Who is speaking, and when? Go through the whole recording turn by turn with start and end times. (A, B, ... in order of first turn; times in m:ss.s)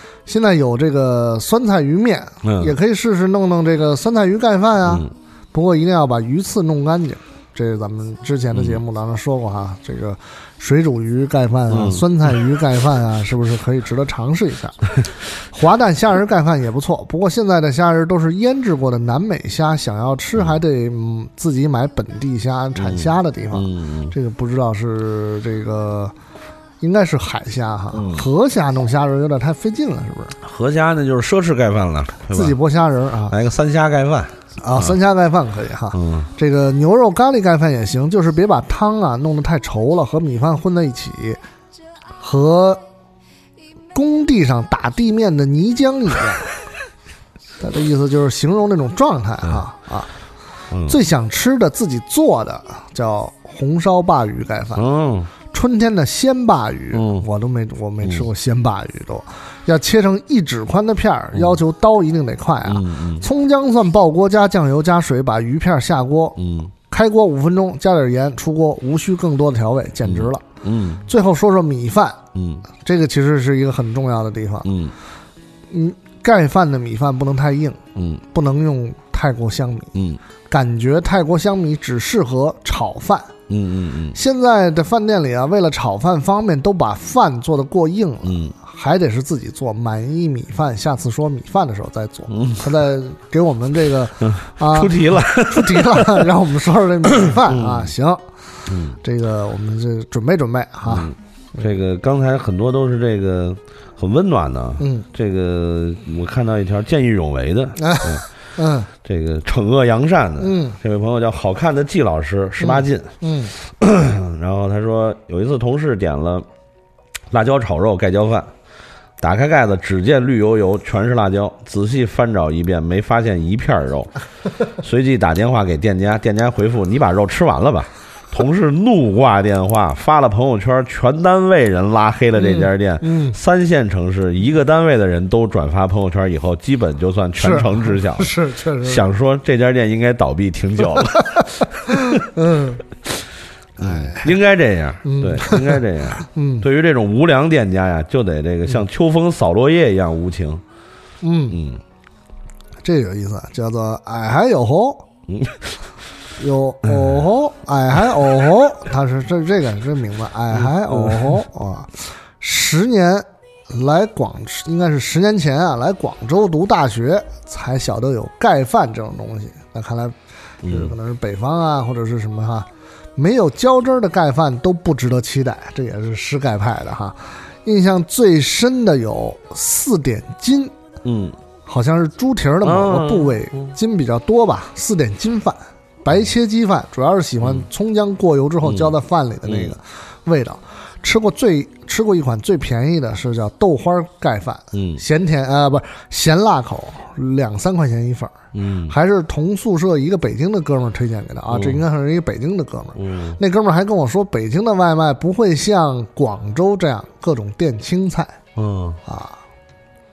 0:00.3-0:14.9 A
0:02.4-0:02.8 B
0:04.9-0:05.1 B
0:08.5-0:08.8 B
0:11.7-0:12.1 B
0:15.5-0:26.1 A
0:22.8-0:24.1 B
0:26.8-0:30.4 A
0:27.9-0:28.3 B
0:30.4-0:32.6 B
0:32.3-0:33.4 A
0:33.3-0:35.0 B
0:34.6-0:41.4 A
0:35.9-0:36.3 B
0:42.2-0:42.8 A
0:43.9-0:46.5 A
0:47.6-0:50.1 A
0:50.7-0:51.0 B
0:50.9-0:54.8 A
0:54.8-0:55.3 B
0:55.5-1:06.4 A
0:56.9-0:57.3 B
0:58.0-0:58.3 B
1:01.3-1:01.6 B
1:02.6-1:03.3 B
1:06.4-1:06.7 B
1:06.9-1:10.4 A
1:10.0-1:11.1 B
1:11.1-1:12.2 A
1:12.4-1:12.6 B
1:12.8-1:14.7 A
1:14.6-1:14.9 B
1:15.7-1:17.8 A
1:18.0-1:18.2 B
1:18.3-1:19.9 A
1:19.9-1:20.2 B
1:20.5-1:23.3 A
1:23.5-1:24.2 B
1:24.1-1:38.2 A
1:28.2-1:28.5 B
1:32.3-1:32.7 B
1:34.2-1:36.3 B
1:37.2-1:37.9 B
1:38.7-1:39.0 B
1:39.0-1:41.1 A
1:40.9-1:48.2 B
1:44.8-1:45.1 A
1:47.8-1:48.9 A
1:49.0-1:56.5 B
1:50.4-1:50.8 A
1:52.6-1:53.5 A
1:57.3-1:58.5 B
1:59.2-2:04.1 B
2:04.8-2:22.2 B
2:12.4-2:13.4 A
2:17.4-2:19.0 A
2:21.9-2:22.8 A
2:23.8-2:30.6 B
2:23.8-2:24.3 A
2:25.0-2:26.6 A
2:31.2-2:31.6 A
2:31.5-2:31.8 B
2:32.8-2:35.1 A
2:35.3-2:35.8 B
2:36.4-2:50.1 A
2:36.9-2:37.2 B
2:40.5-2:41.4 B
2:50.6-2:51.0 B
2:50.6-3:00.7 A
3:01.0-3:01.4 B
3:01.6-3:18.4 A
3:02.6-3:03.7 B
3:08.6-3:09.8 B
3:14.7-3:15.0 B
3:18.5-3:19.0 B
3:18.9-3:28.4 A
3:21.5-3:21.8 B
3:23.0-3:23.4 B
3:28.6-3:29.0 B
3:29.1-3:29.4 A